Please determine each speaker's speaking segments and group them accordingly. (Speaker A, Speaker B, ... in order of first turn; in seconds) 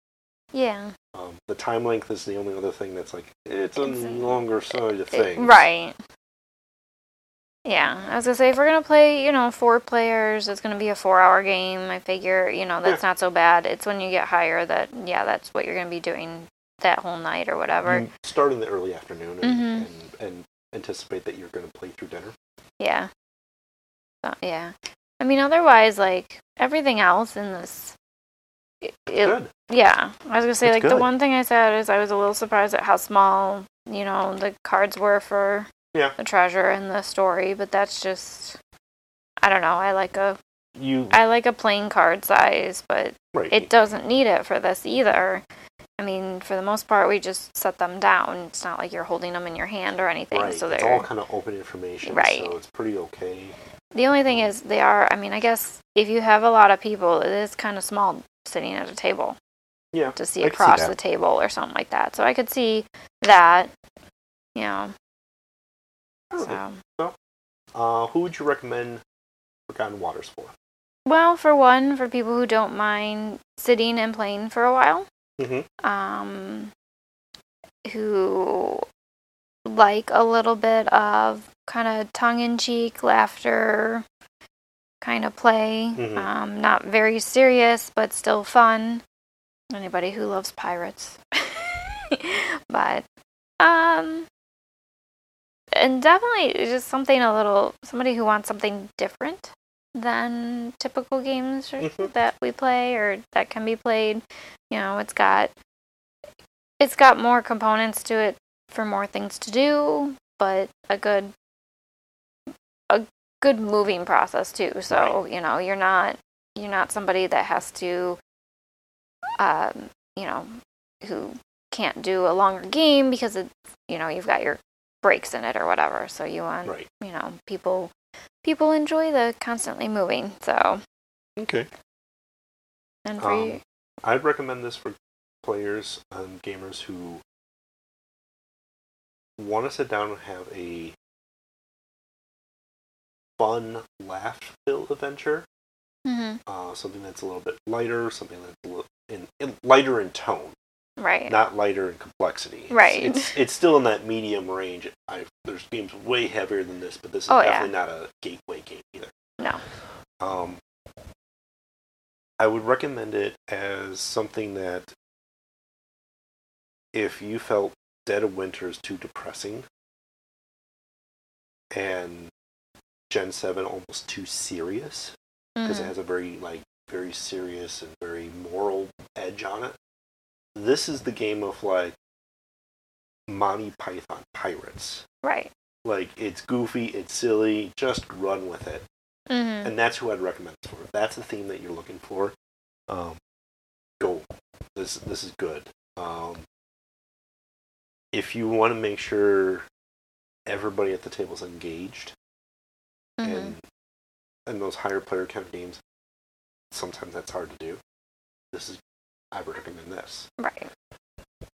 Speaker A: 0.5-0.9, 3.8-6.0, 7.7-18.1, 19.4-19.9, 22.8-23.1, 24.2-27.9, 28.8-38.6, 39.4-40.4, 41.1-45.4, 46.0-51.1, 52.1-52.5, 53.9-59.4, 60.2-63.7, 64.5-64.9, 66.4-66.8, 71.1-75.1, 75.8-76.7, 77.8-78.8, 79.7-84.0, 85.0-89.0, 89.7-93.1, 93.6-94.3, 95.7-105.5, 106.8-111.3, 112.9-118.2, 119.4-127.9, 128.4-130.8, 133.1-133.6, 146.1-146.4, 151.0-151.4, 152.7-153.3, 157.3-157.7, 175.6-175.9, 185.2-185.5, 189.3-189.7, 203.2-203.5, 210.4-210.7
Speaker B: 1.1-5.6, 17.8-22.4, 29.2-29.5, 30.6-31.1, 40.8-41.2, 43.3-43.7, 50.3-53.6, 59.9-60.9, 66.3-67.2, 67.8-69.0, 69.7-70.5, 75.4-75.7, 86.0-86.3, 101.8-102.1, 114.9-115.2, 131.4-131.7, 133.2-137.2, 139.4-140.9, 143.4-145.5, 146.5-150.6, 151.3-159.1, 160.2-160.6, 162.4-164.9, 166.9-169.7, 171.7-172.3, 173.1-179.8, 180.6-182.0, 183.3-185.1, 185.8-188.9, 189.6-192.3, 192.9-193.2, 194.0-196.4, 198.1-199.7, 200.5-202.1, 203.2-203.6, 204.5-205.8, 206.7-207.8, 208.5-208.8, 209.3-210.3